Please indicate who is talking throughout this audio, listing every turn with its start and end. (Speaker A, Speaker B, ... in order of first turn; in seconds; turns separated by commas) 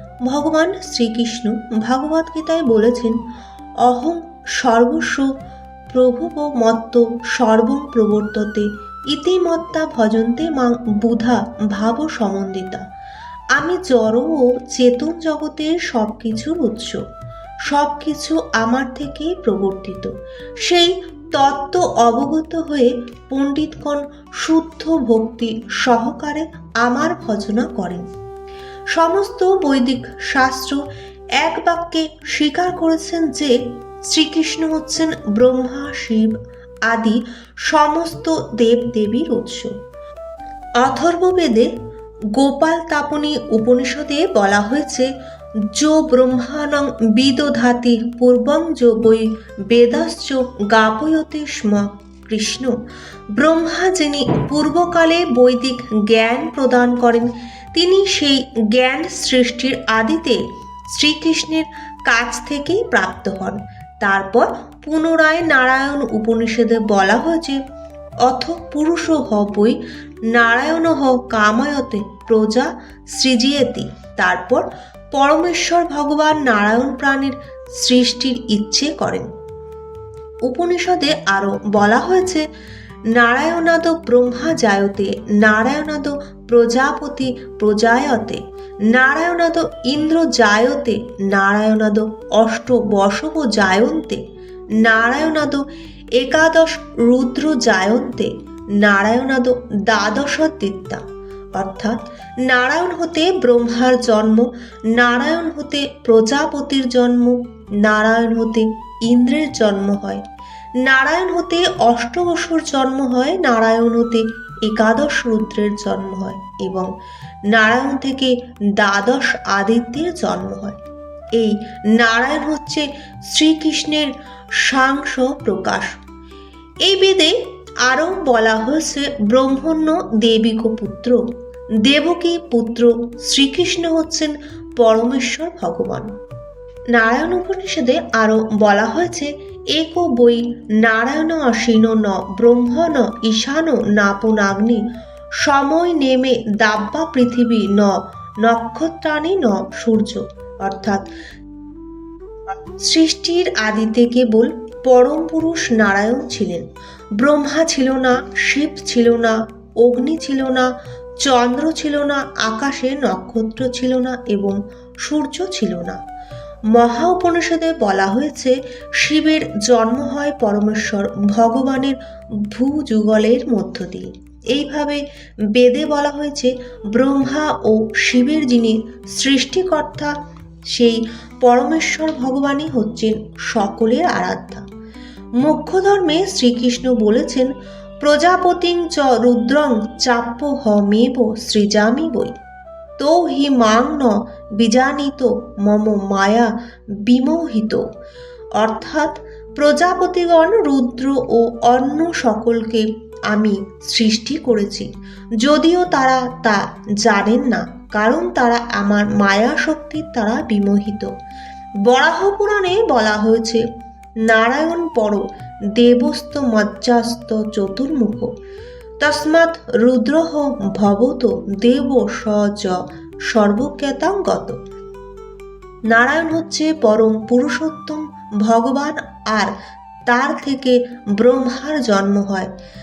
Speaker A: 0.2-3.2, Speaker A: 3.9-5.3, Speaker A: 5.9-12.8, Speaker A: 13.6-17.0, Speaker A: 17.7-20.1, Speaker A: 20.6-28.1, Speaker A: 28.9-30.8, Speaker A: 31.4-39.7, Speaker A: 40.8-41.7, Speaker A: 42.4-45.1, Speaker A: 45.7-52.8, Speaker A: 53.4-60.4, Speaker A: 60.9-67.6, Speaker A: 68.3-69.8, Speaker A: 70.3-79.3, Speaker A: 80.5-82.5, Speaker A: 83.2-94.2, Speaker A: 94.8-95.6, Speaker A: 96.2-101.0, Speaker A: 101.5-110.2, Speaker A: 110.8-116.9, Speaker A: 117.5-120.8, Speaker A: 121.4-124.1, Speaker A: 124.6-126.0, Speaker A: 126.8-131.2, Speaker A: 131.8-136.1, Speaker A: 136.9-144.8, Speaker A: 145.4-151.1, Speaker A: 152.8-156.7, Speaker A: 157.2-160.7, Speaker A: 161.2-166.0, Speaker A: 166.7-172.0, Speaker A: 172.5-175.0, Speaker A: 175.5-180.1, Speaker A: 180.7-184.7, Speaker A: 185.4-187.5, Speaker A: 188.0-192.4, Speaker A: 193.0-196.5, Speaker A: 197.1-197.8, Speaker A: 198.6-204.9, Speaker A: 205.4-211.1, Speaker A: 211.9-213.6, Speaker A: 214.3-215.2, Speaker A: 215.8-218.3, Speaker A: 219.0-224.6, Speaker A: 225.9-229.5, Speaker A: 230.1-232.5